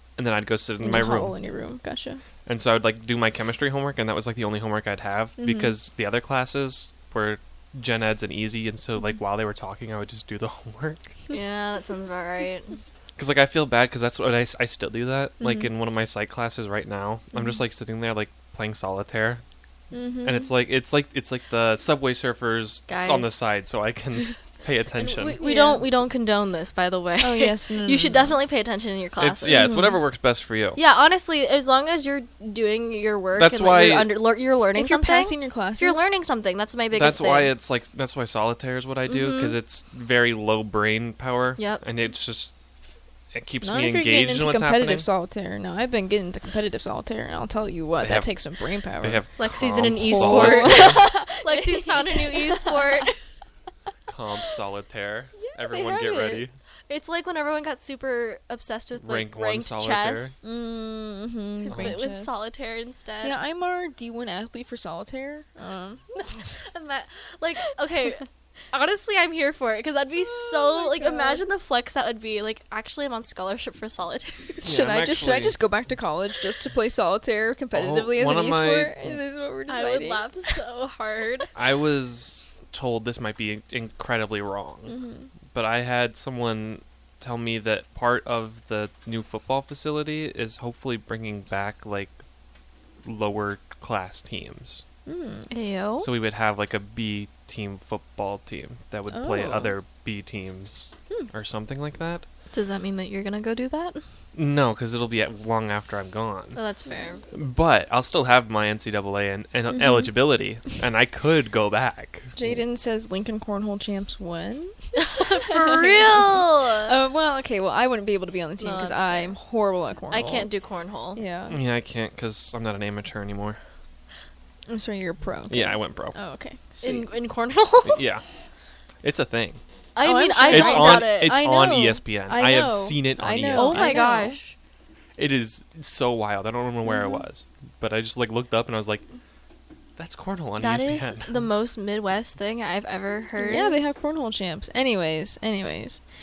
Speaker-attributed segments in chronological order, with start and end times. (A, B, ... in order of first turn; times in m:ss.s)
0:00.2-0:01.3 A
0:00.8-0:02.2 B
0:02.4-0:11.1 A
0:05.4-0:05.7 B
0:11.3-0:12.8 C
0:13.2-0:19.4 A
0:15.4-0:15.7 B
0:19.9-0:20.5 B
0:20.2-0:25.4 A
0:22.9-0:23.4 C
0:25.0-0:29.8 C
0:25.4-0:25.9 B
0:27.2-0:28.3 B
0:29.2-0:30.8 A
0:29.5-0:30.0 B
0:30.7-0:37.5 C
0:33.3-0:34.2 A
0:34.7-0:36.0 B
0:36.9-0:42.5 A
0:39.1-0:39.6 C
0:41.6-0:41.8 C
0:43.3-0:45.1 A
0:43.6-0:49.2 B
0:48.0-0:48.4 A
0:49.0-0:51.0 A
0:49.4-0:53.2 C
0:50.0-0:53.0 B
0:54.1-0:56.5 A
0:55.4-0:56.4 B
0:56.9-1:00.4 C
0:59.0-1:00.3 A
1:00.4-1:02.4 B
1:01.6-1:03.4 C
1:03.2-1:06.5 B
1:06.2-1:14.7 C
1:10.2-1:11.4 B
1:14.6-1:15.6 A
1:14.6-1:20.5 B
1:17.7-1:19.2 A
1:19.7-1:21.5 C
1:21.5-1:24.9 A
1:24.9-1:25.3 B
1:25.5-1:32.1 A
1:33.0-1:34.8 A
1:35.0-1:35.5 B
1:35.5-1:36.1 C
1:36.0-1:42.2 A
1:39.1-1:39.8 B
1:42.5-1:44.0 C
1:44.3-1:46.6 A
1:46.5-1:47.2 C
1:47.3-1:52.6 A
1:49.7-1:50.1 B
1:52.4-1:54.7 B
1:55.0-1:57.0 C
1:56.8-2:00.5 B
1:58.6-1:59.4 C
2:00.1-2:01.2 C
2:01.1-2:01.6 B
2:01.5-2:03.6 A
2:04.7-2:07.1 B
2:05.5-2:06.2 A
2:06.8-2:08.0 C
2:07.8-2:08.2 A
2:09.0-2:09.6 A
2:09.9-2:11.4 C
2:10.0-2:14.4 B
2:10.5-2:14.0 A
2:13.5-2:14.5 C
2:15.2-2:19.0 A
2:16.8-2:17.2 B
2:20.0-2:21.4 A
2:20.6-2:23.8 C
2:23.4-2:26.0 B